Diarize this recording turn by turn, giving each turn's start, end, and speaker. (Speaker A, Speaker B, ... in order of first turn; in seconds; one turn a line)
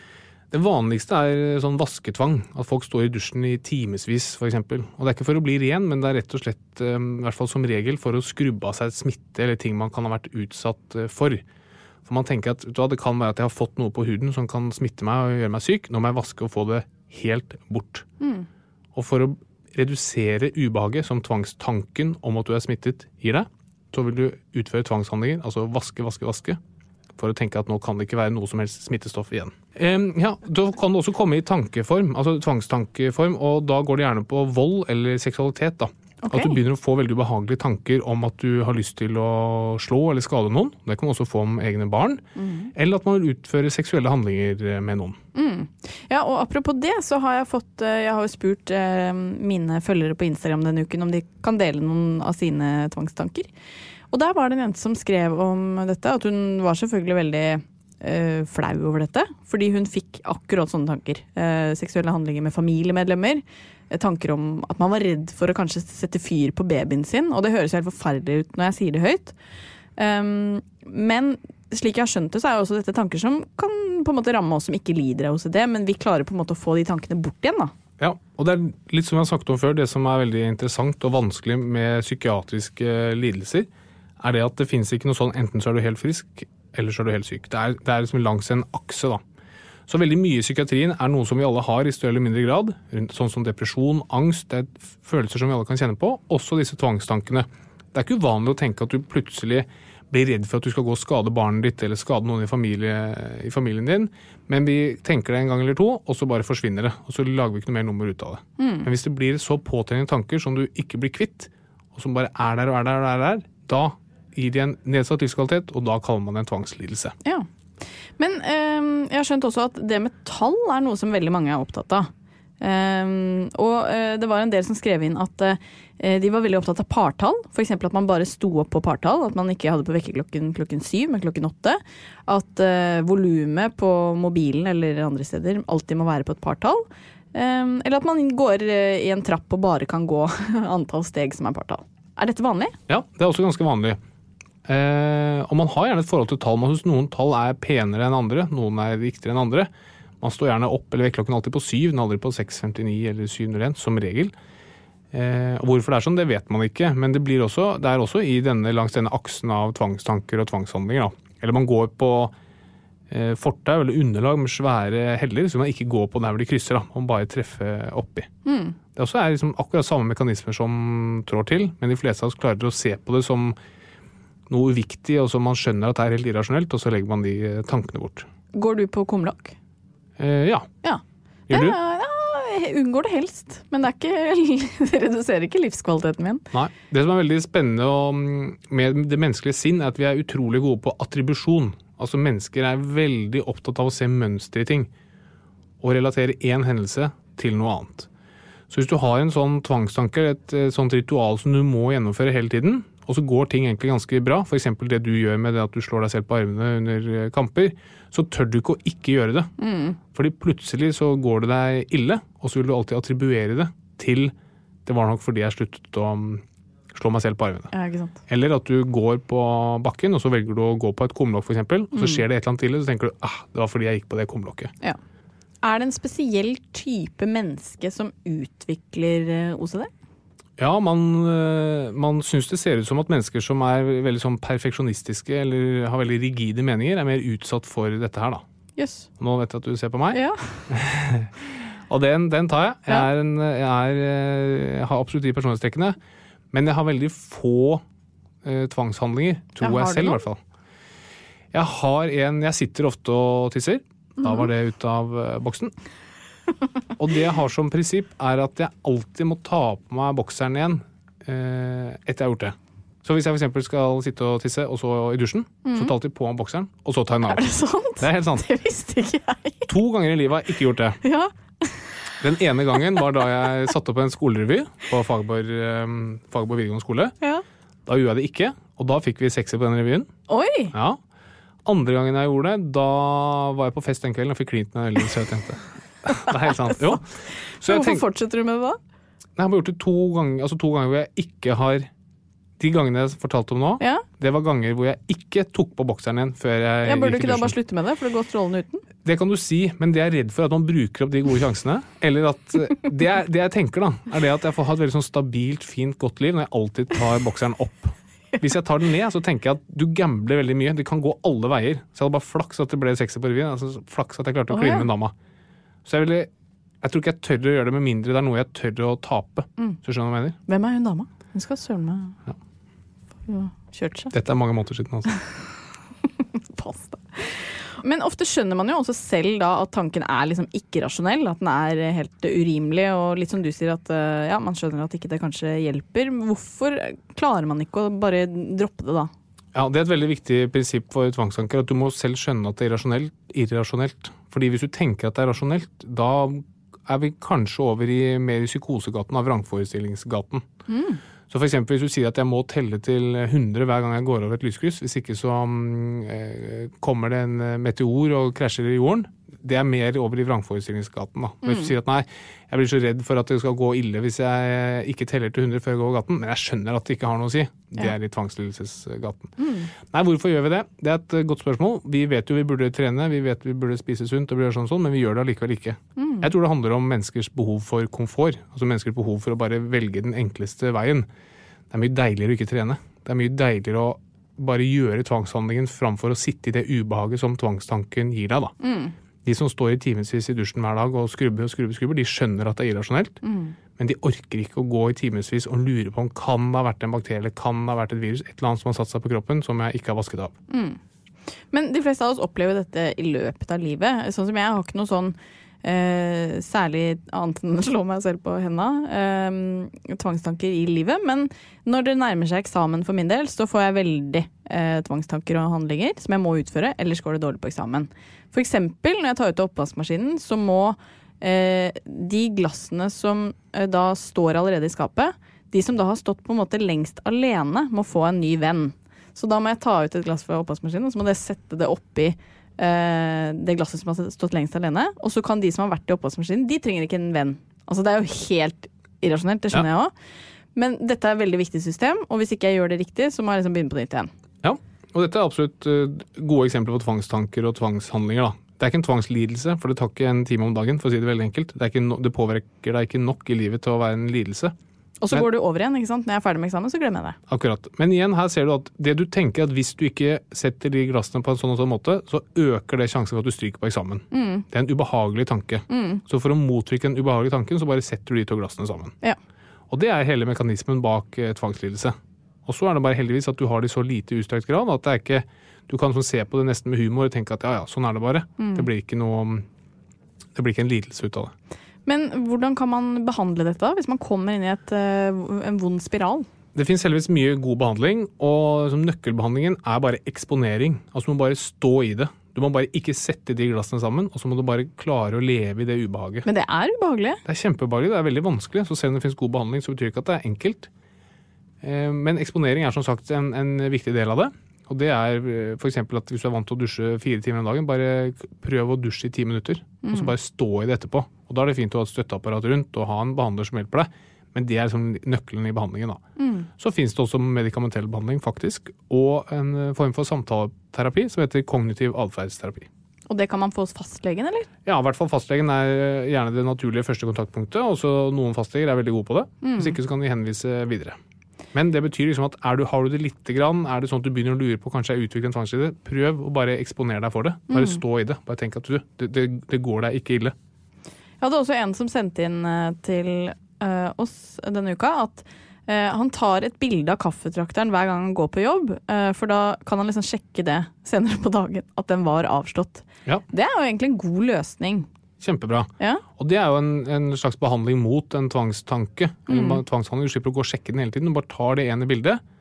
Speaker A: 0.5-11.4
Speaker A: 12.1-18.1
Speaker B: 18.2-18.5
Speaker A: 18.9-26.6
Speaker A: 27.2-45.2
Speaker B: 36.2-36.6
Speaker B: 42.4-42.7
Speaker B: 45.4-53.5
Speaker B: 54.1-69.3
Speaker B: 70.0-77.7
Speaker A: 78.0-89.2
Speaker A: 89.9-117.2
Speaker B: 108.6-108.9
Speaker B: 118.2-122.1
Speaker B: 122.6-142.8
Speaker A: 142.9-144.0
Speaker A: 144.7-149.7
Speaker A: 150.2-154.3
Speaker A: 155.1-162.3
Speaker A: 163.1-168.3
Speaker B: 168.4-168.8
Speaker A: 168.9-173.6
Speaker A: 174.5-178.3
Speaker B: 178.5-179.6
Speaker A: 180.2-180.7
Speaker B: 180.8-186.4
Speaker A: 181.5-181.8
Speaker A: 186.5-194.9
Speaker A: 195.8-198.1
Speaker A: 198.7-209.5
Speaker B: 209.6-210.0
Speaker A: 210.1-214.3
Speaker A: 214.9-217.7
Speaker B: 217.7-218.2
Speaker A: 218.3-224.7
Speaker B: 221.9-222.2
Speaker B: 225.6-229.9
Speaker A: 230.6-238.4
Speaker B: 238.8-239.1
Speaker A: 239.2-241.3
Speaker B: 240.1-240.7
Speaker A: 241.9-246.0
Speaker A: 246.5-247.8
Speaker A: 248.4-250.4
Speaker B: 249.6-250.2
Speaker A: 251.5-255.7
Speaker A: 257.0-268.5
Speaker B: 265.6-265.9
Speaker B: 267.3-269.7
Speaker A: 269.7-271.0
Speaker B: 271.0-271.9
Speaker A: 272.2-277.1
Speaker A: 277.9-280.1
Speaker B: 280.3-280.7
Speaker A: 280.7-281.0
Speaker A: 281.6-287.1
Speaker B: 286.3-287.0
Speaker A: 287.6-288.1
Speaker B: 287.6-288.8
Speaker A: 289.4-291.9
Speaker A: 292.6-297.6
Speaker B: 293.8-294.1
Speaker B: 296.9-298.9
Speaker A: 299.0-315.1
Speaker B: 314.5-314.9
Speaker A: 315.9-316.3
Speaker A: 316.8-320.4
Speaker B: 320.5-322.1
Speaker B: 323.3-324.1
Speaker A: 324.1-325.1
Speaker B: 326.4-339.1
Speaker A: 339.5-350.5
Speaker B: 350.7-351.0
Speaker A: 351.3-381.1
Speaker B: 361.5-361.7
Speaker B: 369.4-369.7
Speaker B: 376.0-376.3
Speaker A: 381.7-388.5
Speaker B: 388.6-388.9
Speaker A: 389.2-393.2
Speaker B: 393.2-393.6
Speaker A: 393.8-400.4
Speaker B: 400.5-400.8
Speaker B: 401.5-439.9
Speaker B: 440.6-444.1
Speaker A: 444.4-454.6
Speaker B: 455.0-457.2
Speaker A: 457.3-468.9
Speaker B: 464.1-464.4
Speaker B: 465.7-466.0
Speaker A: 469.7-471.9
Speaker A: 472.5-479.5
Speaker B: 478.4-478.7
Speaker A: 480.4-481.3
Speaker B: 481.9-486.3
Speaker A: 486.6-496.3
Speaker B: 496.2-497.2
Speaker A: 497.3-500.7
Speaker A: 501.6-516.0
Speaker B: 509.8-510.1
Speaker B: 516.2-516.5
Speaker A: 516.6-522.7
Speaker B: 523.1-524.5
Speaker A: 524.7-531.0
Speaker B: 529.4-529.8
Speaker A: 531.5-540.4
Speaker B: 537.5-537.8
Speaker B: 541.2-554.9
Speaker A: 555.2-562.2
Speaker B: 559.3-559.6